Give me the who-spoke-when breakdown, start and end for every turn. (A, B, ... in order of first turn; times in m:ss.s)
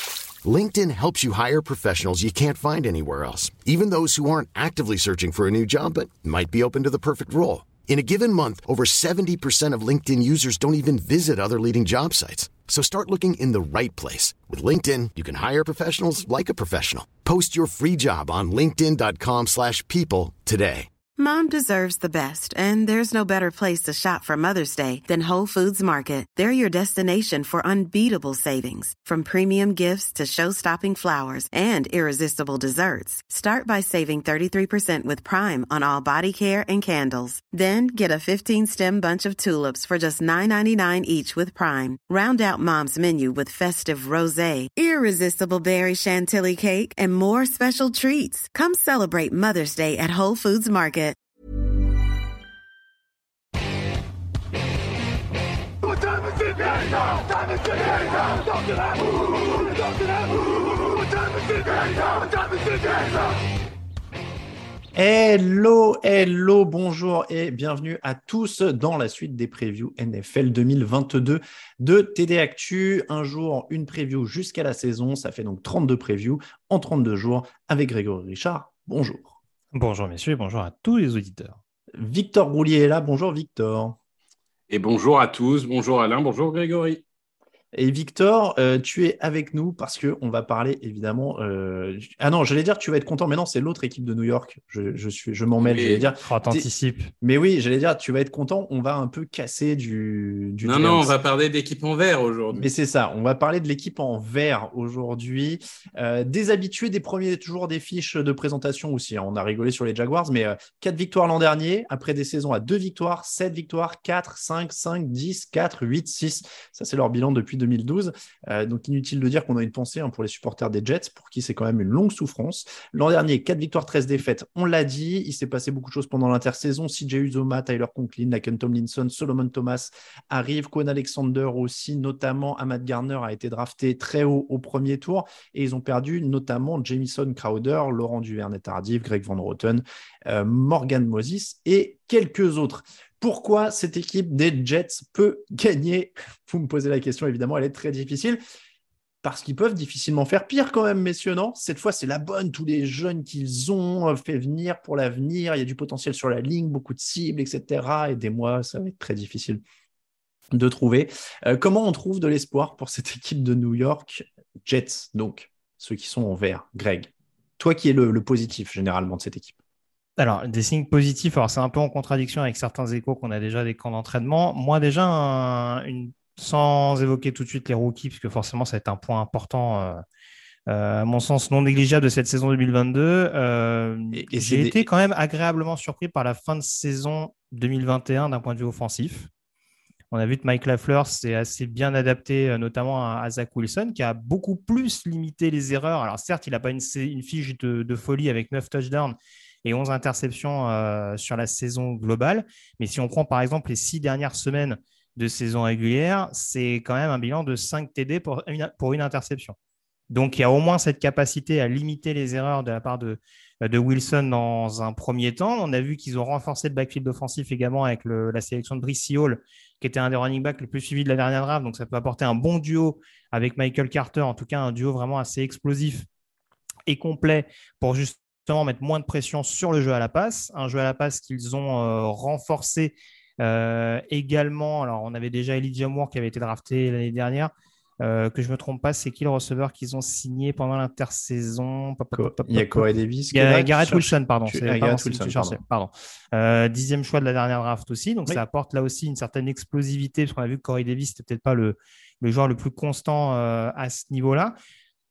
0:00.4-0:20.9 A
0:21.2-0:51.2 B
1:05.0-1:19.4 C
1:19.7-1:21.6 D
1:22.0-1:24.0 C
1:24.7-1:27.0 E
1:27.7-1:36.7 C
1:35.6-1:36.1 E
1:36.2-1:37.1 D
1:37.2-1:41.2 C
1:40.6-1:42.7 E
1:42.5-2:28.4 C
2:29.2-2:39.6 C
2:40.5-2:49.6 C
2:50.2-3:00.0 D
3:00.7-3:09.3 D
3:04.1-3:04.9 C
3:10.1-3:29.6 D
3:30.1-3:46.0 D
3:46.9-3:57.5 D
3:58.0-4:14.5 D
4:02.1-4:05.6 C